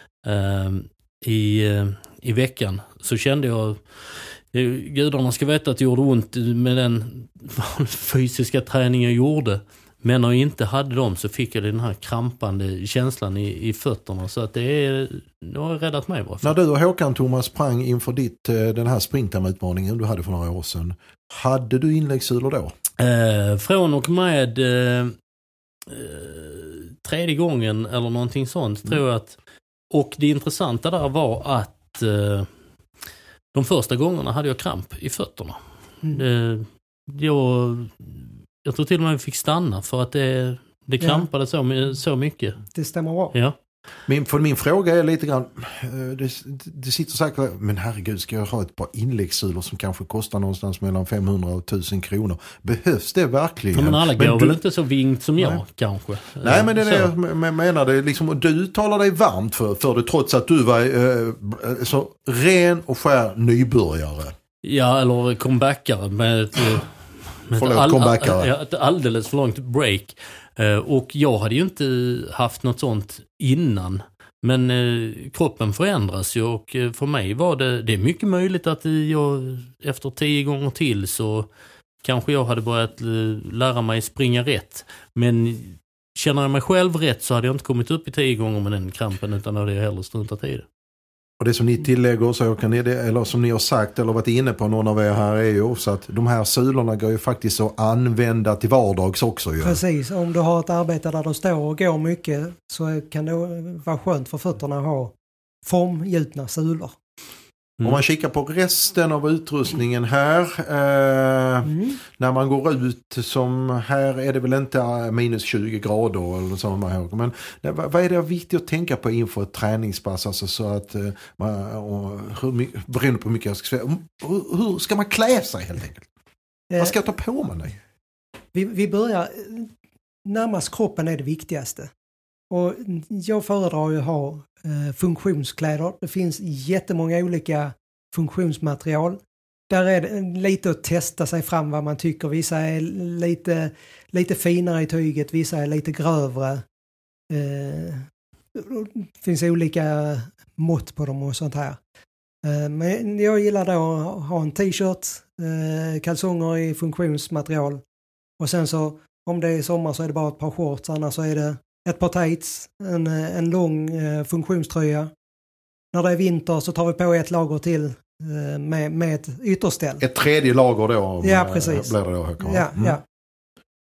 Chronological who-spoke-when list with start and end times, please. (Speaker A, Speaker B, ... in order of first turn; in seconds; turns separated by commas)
Speaker A: 0.2-16.5, Speaker B: 16.4-22.7, Speaker A: 23.0-25.1, Speaker A: 25.9-29.4, Speaker A: 29.9-32.5, Speaker A: 33.5-35.6, Speaker A: 36.1-42.6, Speaker C: 41.0-41.2, Speaker C: 42.7-43.3, Speaker B: 44.1-54.6, Speaker A: 53.7-57.1, Speaker B: 56.4-64.3, Speaker A: 64.6-81.5, Speaker B: 67.5-68.5, Speaker A: 82.0-90.7, Speaker B: 91.4-99.8, Speaker C: 99.6-107.0, Speaker B: 107.8-126.1, Speaker C: 111.6-112.0, Speaker C: 126.7-127.0, Speaker B: 126.8-127.8, Speaker C: 128.5-129.7, Speaker C: 130.2-131.9, Speaker C: 132.5-146.6, Speaker C: 147.3-151.8, Speaker C: 152.4-157.8, Speaker C: 158.4-165.1, Speaker C: 165.9-170.0, Speaker B: 170.0-173.0, Speaker C: 171.2-173.0